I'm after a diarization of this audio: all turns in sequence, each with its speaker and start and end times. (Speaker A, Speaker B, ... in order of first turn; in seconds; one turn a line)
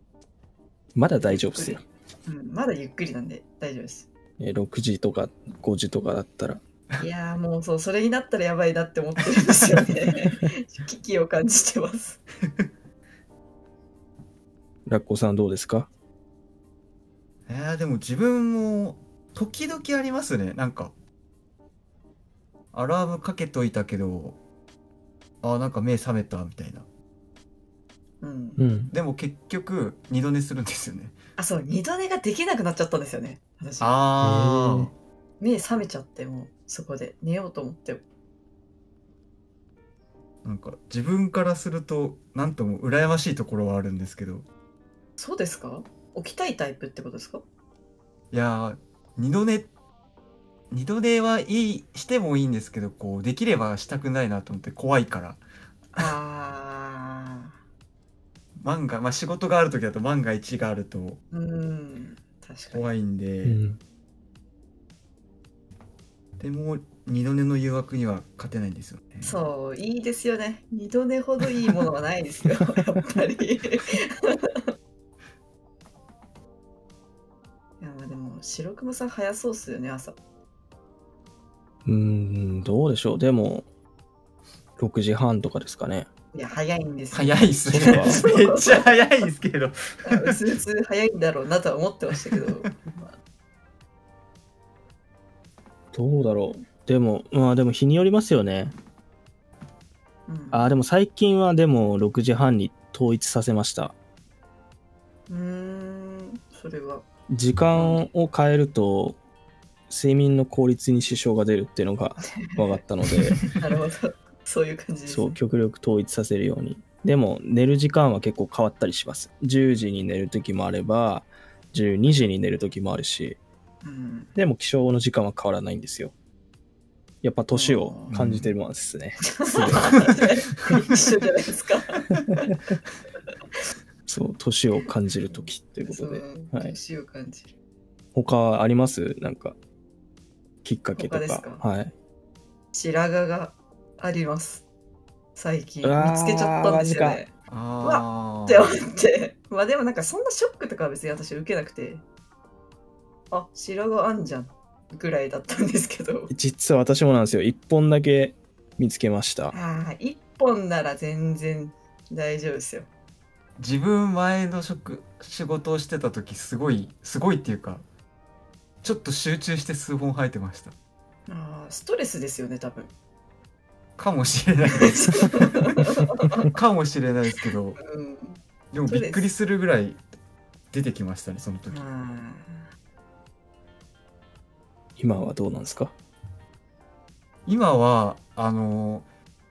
Speaker A: 1.0-1.8
Speaker B: 1.2-4.1
Speaker A: 4.4-6.6
Speaker B: 7.0-12.2
Speaker A: 14.9-15.9
Speaker C: 17.5-20.9
Speaker C: 22.7-24.4
Speaker C: 25.4-26.9
Speaker B: 28.2-28.6
Speaker A: 28.6-28.9
Speaker C: 28.9-31.2
Speaker B: 31.4-34.0
Speaker C: 33.8-34.9
Speaker A: 34.2-34.9
Speaker B: 35.4-38.0
Speaker C: 40.4-44.5
Speaker B: 45.2-47.4
Speaker C: 48.3-49.7
Speaker C: 50.7-55.4
Speaker B: 55.9-57.5
Speaker C: 58.6-61.2
Speaker B: 61.3-62.9
Speaker C: 62.7-63.6
Speaker A: 63.5-63.8
Speaker C: 66.4-69.4
Speaker B: 69.2-74.6
Speaker B: 77.8-80.2
Speaker A: 81.9-83.7
Speaker A: 84.8-86.1
Speaker B: 86.3-89.0
Speaker C: 87.1-90.4
Speaker A: 87.7-88.2
Speaker B: 90.1-93.1
Speaker A: 95.9-98.8
Speaker B: 100.3-100.7
Speaker A: 100.5-104.0
Speaker B: 105.3-107.0
Speaker A: 107.3-109.2
Speaker B: 107.7-108.0
Speaker A: 109.9-113.4
Speaker B: 112.4-112.8
Speaker B: 113.6-115.4
Speaker A: 115.1-123.4
Speaker B: 123.8-124.3
Speaker A: 124.4-126.1
Speaker A: 127.2-129.9
Speaker B: 127.5-128.1
Speaker C: 128.1-128.5
Speaker B: 129.3-132.4
Speaker A: 134.1-136.8
Speaker B: 135.9-137.5
Speaker A: 138.2-139.6
Speaker A: 140.6-141.9
Speaker B: 140.9-141.6
Speaker B: 142.7-144.7
Speaker B: 145.4-147.3
Speaker A: 145.8-147.2
Speaker C: 147.5-148.7
Speaker B: 147.8-152.0
Speaker B: 153.3-156.3
Speaker A: 156.3-159.5
Speaker B: 159.5-162.9
Speaker C: 163.6-167.8
Speaker C: 168.8-170.8
Speaker B: 171.3-172.9
Speaker C: 174.0-175.7
Speaker B: 174.8-176.5
Speaker C: 176.5-177.8
Speaker B: 177.8-179.3
Speaker C: 178.7-180.0
Speaker C: 180.7-181.9
Speaker B: 181.7-182.7
Speaker A: 185.0-185.9
Speaker C: 187.5-189.1